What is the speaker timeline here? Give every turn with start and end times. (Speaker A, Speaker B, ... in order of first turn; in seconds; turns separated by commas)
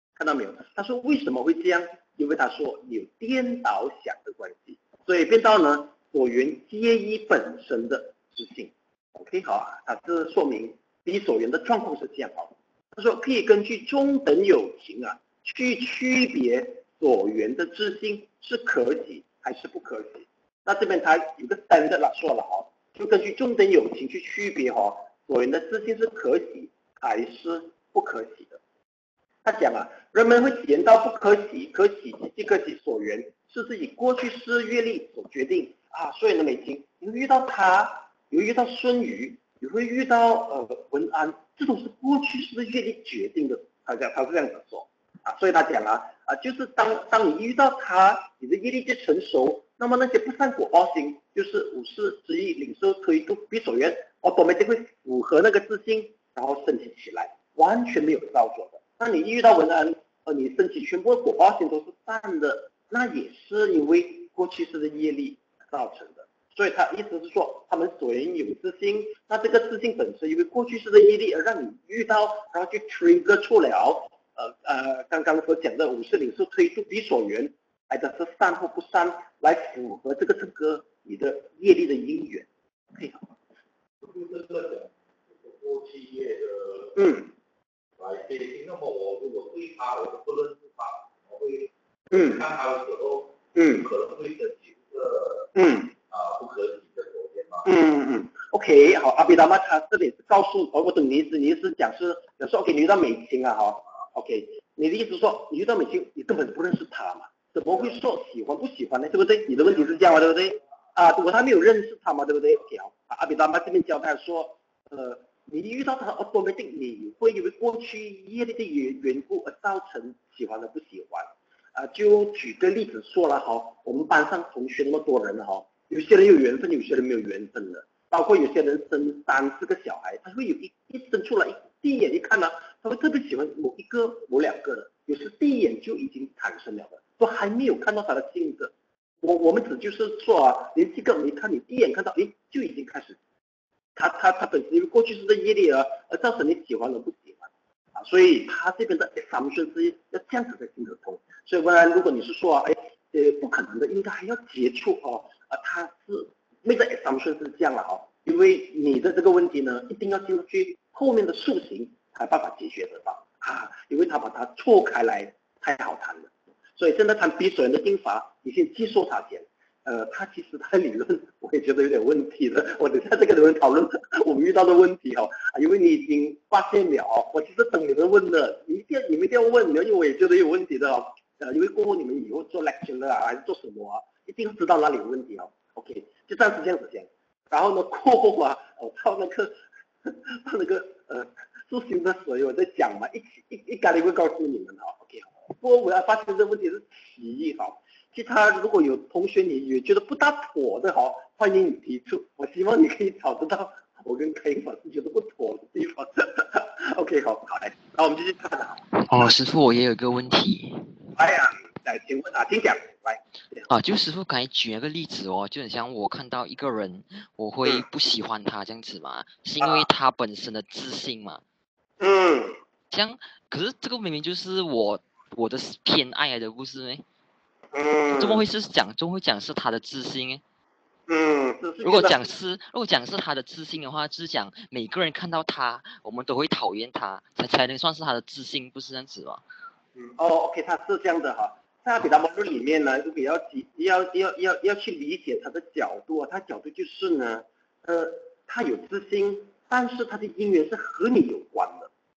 Speaker A: 0.1-28.6, Speaker A: 29.4-83.3, Speaker B: 84.0-87.0, Speaker A: 87.0-87.3, Speaker B: 88.0-97.7, Speaker A: 92.1-92.4, Speaker A: 93.5-93.8, Speaker A: 95.5-95.9, Speaker A: 97.6-143.2, Speaker A: 143.9-208.8, Speaker C: 208.9-210.9, Speaker A: 211.1-213.7, Speaker C: 213.7-221.4, Speaker A: 219.6-219.9, Speaker A: 222.0-222.6, Speaker C: 222.9-227.0, Speaker A: 227.7-228.4, Speaker C: 228.1-230.4, Speaker A: 231.1-232.2, Speaker C: 231.8-239.4, Speaker A: 239.9-251.9